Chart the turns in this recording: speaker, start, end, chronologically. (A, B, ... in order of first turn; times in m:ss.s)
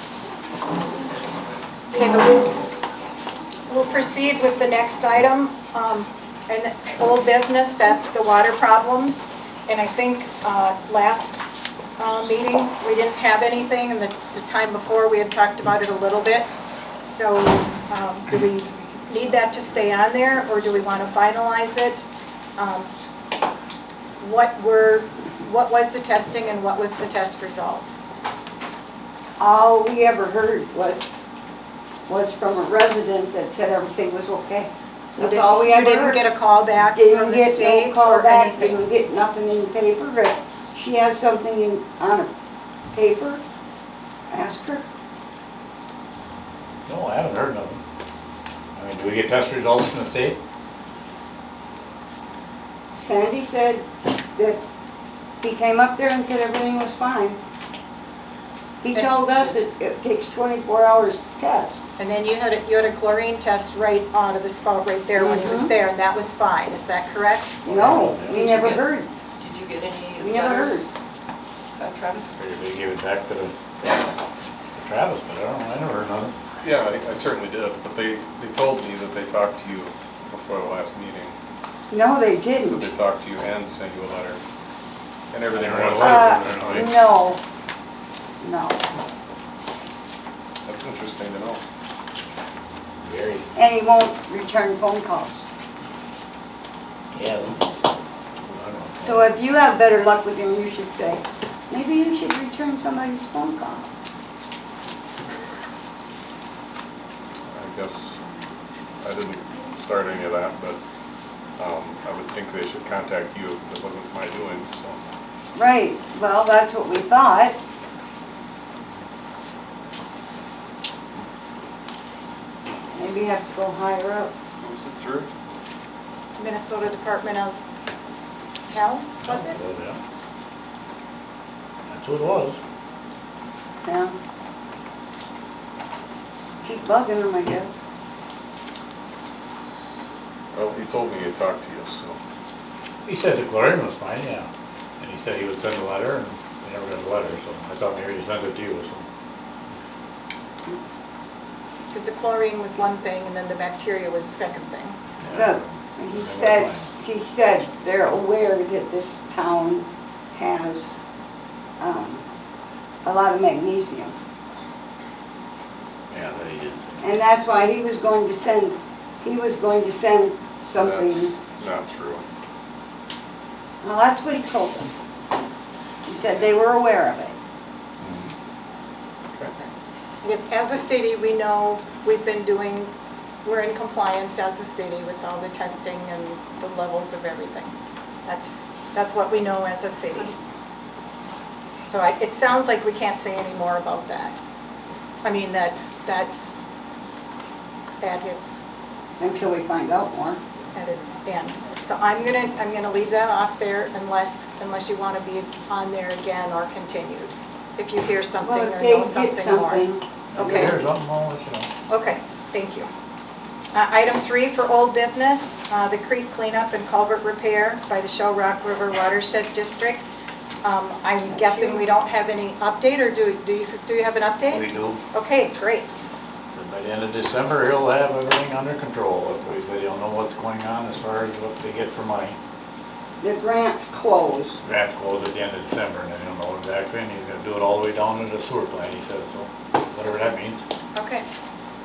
0:01.9-0:02.7 A
0:03.7-0:16.5 A
0:17.0-0:22.1 A
0:22.6-0:22.9 A
0:24.2-0:28.0 A
0:29.4-0:31.1 B
0:32.1-0:36.3 B
0:35.2-0:38.8 A
0:36.9-0:42.3 B
0:42.9-0:43.4 B
0:44.3-0:44.8 B
0:46.9-0:47.8 C
0:48.8-0:50.4 C
0:53.0-0:54.6 B
0:55.4-0:57.4 B
0:58.8-1:01.8 B
0:58.9-0:59.5 A
1:02.0-1:07.6 A
1:05.2-1:05.7 B
1:07.6-1:09.1 B
1:07.7-1:08.4 C
1:08.4-1:08.8 D
1:09.4-1:10.8 D
1:10.2-1:10.9 B
1:11.8-1:12.3 D
1:12.4-1:14.1 C
1:14.8-1:16.3 C
1:16.6-1:21.4 E
1:21.9-1:22.9 B
1:22.6-1:24.4 E
1:25.3-1:26.9 E
1:25.5-1:26.9 C
1:26.0-1:27.4 B
1:28.4-1:28.8 B
1:30.6-1:31.6 E
1:33.0-1:33.5 C
1:33.6-1:35.4 B
1:37.1-1:37.7 C
1:38.4-1:39.3 C
1:39.0-1:43.9 B
1:47.5-1:48.2 E
1:49.0-1:50.8 E
1:51.6-1:55.0 E
1:55.6-1:57.6 B
2:02.9-2:04.3 B
2:04.6-2:05.3 E
2:06.4-2:07.6 A
2:08.7-2:09.6 A
2:09.2-2:10.0 C
2:11.9-2:12.6 C
2:13.8-2:14.2 B
2:16.6-2:17.7 B
2:20.5-2:22.2 E
2:23.1-2:24.5 C
2:25.0-2:29.0 C
2:31.9-2:35.0 A
2:35.2-2:36.9 C
2:35.3-2:40.9 B
2:41.8-2:42.2 B
2:43.0-2:44.1 B
2:46.1-2:47.0 C
2:47.0-2:51.3 B
2:50.8-2:52.2 E
2:53.8-2:54.9 B
2:56.1-2:57.4 B
2:58.0-2:58.3 E
3:00.2-3:02.9 A
3:03.4-3:07.8 A
3:08.3-3:10.4 A
3:11.9-3:14.4 A
3:15.2-3:16.7 A
3:18.0-3:18.6 A
3:19.2-3:20.4 B
3:20.7-3:30.8 A
3:28.4-3:30.6 B
3:30.4-3:31.7 C
3:31.9-3:32.9 A
3:33.7-3:40.0 A
3:40.6-3:45.9 A
3:41.3-3:41.9 B
3:44.6-3:45.0 C
3:46.5-3:52.4 C
3:53.2-3:54.6 B
3:54.6-4:00.6 C
4:01.0-4:01.3 A